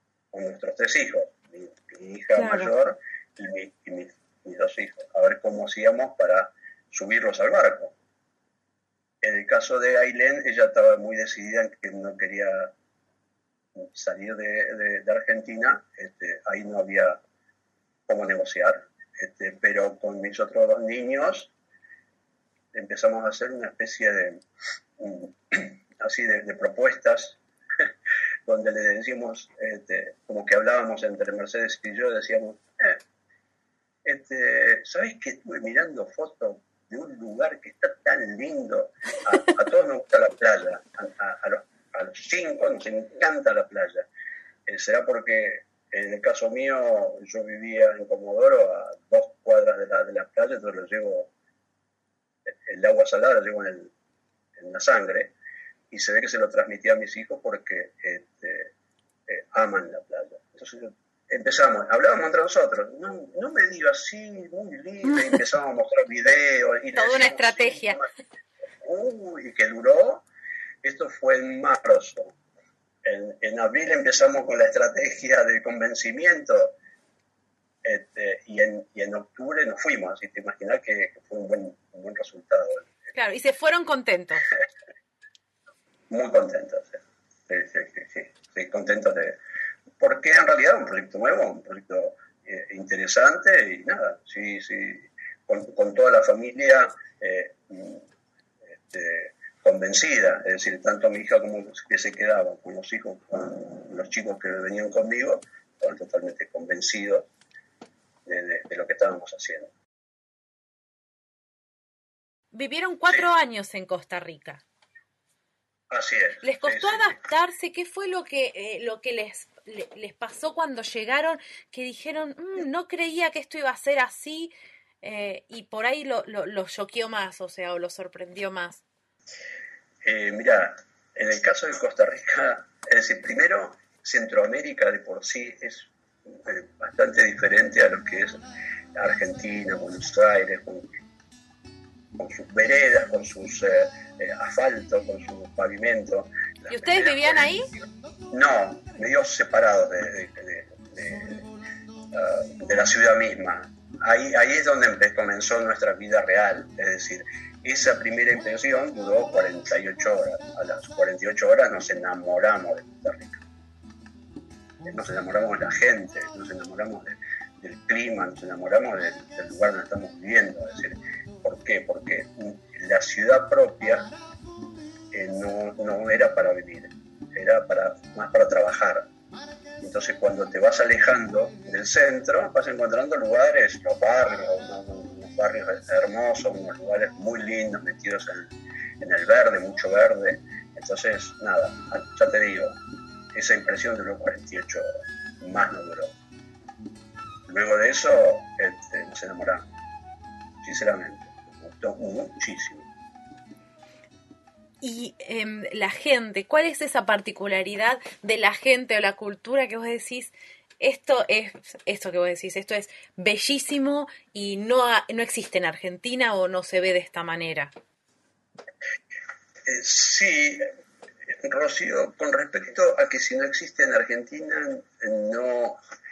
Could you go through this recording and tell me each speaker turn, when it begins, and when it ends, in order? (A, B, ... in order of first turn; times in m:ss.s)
0:00.3-0:07.9 A
0:02.3-0:02.7 B
0:09.2-0:12.7 A
0:13.8-0:17.2 A
0:18.1-0:21.5 A
0:22.7-0:24.4 A
0:25.0-0:27.9 A
0:28.4-0:33.0 A
0:34.0-0:44.1 A
0:44.7-0:51.3 A
0:52.5-0:53.9 A
0:54.6-0:55.3 A
0:55.9-0:58.7 A
0:59.3-1:08.1 A
1:06.9-1:08.0 B
1:08.8-1:10.2 A
1:10.8-1:12.4 A
1:13.0-1:16.8 A
1:17.8-1:22.9 A
1:23.1-1:24.5 B
1:26.1-1:29.4 A
1:30.0-1:38.0 A
1:38.7-1:47.3 A
1:48.2-1:49.7 A
1:52.5-1:54.6 B
1:55.9-1:57.2 A
1:56.4-2:08.8 B
2:10.0-2:20.9 A
2:22.2-2:31.4 A
2:26.7-2:27.7 B
2:32.1-2:43.4 A
2:44.8-2:54.1 A
2:55.1-2:59.1 A
2:59.8-3:12.8 A
3:13.3-3:14.9 A
3:15.4-3:16.1 A
3:17.5-3:19.6 A
3:20.6-3:22.9 A
3:24.8-3:37.7 B
3:39.6-3:40.6 A
3:41.3-3:45.8 A